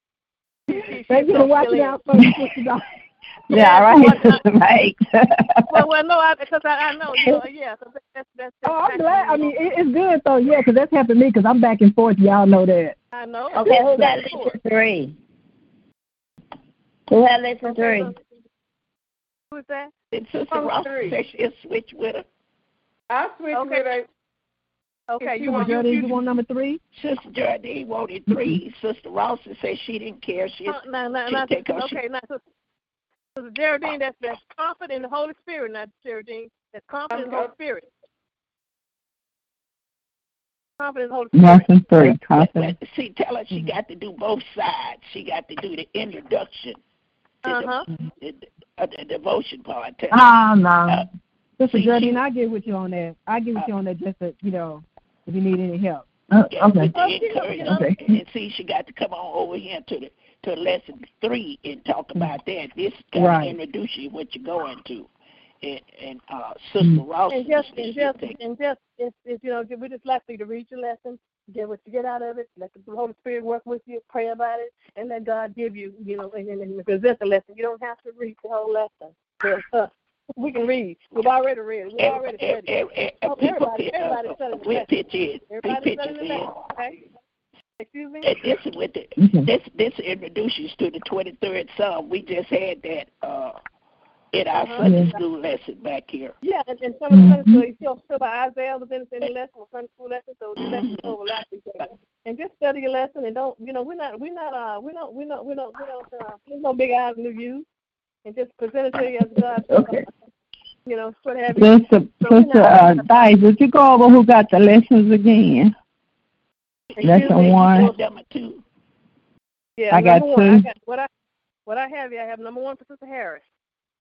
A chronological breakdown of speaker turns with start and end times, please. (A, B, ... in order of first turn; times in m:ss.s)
0:00.7-0:02.0 A
0:00.7-0:02.9 B
0:03.5-0:04.4 A
0:03.5-0:05.8 C
0:05.7-0:09.6 A
0:08.6-0:13.0 B
0:13.1-0:14.6 A
0:13.5-0:15.1 D
0:17.1-0:18.1 D
0:17.8-0:18.0 A
0:19.5-0:19.9 A
0:20.1-0:22.2 E
0:20.5-0:21.2 F
0:23.1-0:24.1 F
0:23.5-0:23.9 A
0:25.1-0:26.1 A
0:25.2-0:26.2 F
0:25.4-0:26.8 B
0:27.0-0:32.0 E
0:30.6-0:32.4 A
0:33.4-0:37.9 A
0:37.1-0:37.5 F
0:40.8-0:41.7 A
0:41.3-0:42.7 C
0:42.2-0:46.8 E
0:47.4-0:47.8 A
0:47.4-0:50.3 E
0:50.1-0:51.0 C
0:51.6-0:56.1 B
0:51.7-0:52.2 E
0:56.3-0:56.9 C
0:56.5-1:05.1 E
0:56.9-0:57.9 A
0:57.6-0:58.2 C
1:03.1-1:03.6 B
1:05.6-1:08.4 E
1:07.3-1:22.7 A
1:22.0-1:26.6 E
1:23.2-1:24.9 A
1:25.5-1:27.0 A
1:27.8-1:28.3 A
1:28.2-1:33.6 E
1:29.2-1:29.5 C
1:34.3-1:36.4 E
1:34.6-1:35.2 A
1:34.8-1:35.2 C
1:36.4-1:47.6 A
1:37.1-1:37.6 C
1:40.6-1:41.1 E
1:48.2-1:50.1 A
1:49.7-1:50.1 C
1:50.9-1:53.4 A
1:51.6-1:55.7 C
1:56.9-1:58.6 E
1:57.0-1:57.9 A
1:57.0-1:57.9 C
1:59.8-2:01.1 A
1:59.9-2:00.6 C
2:01.7-2:03.4 A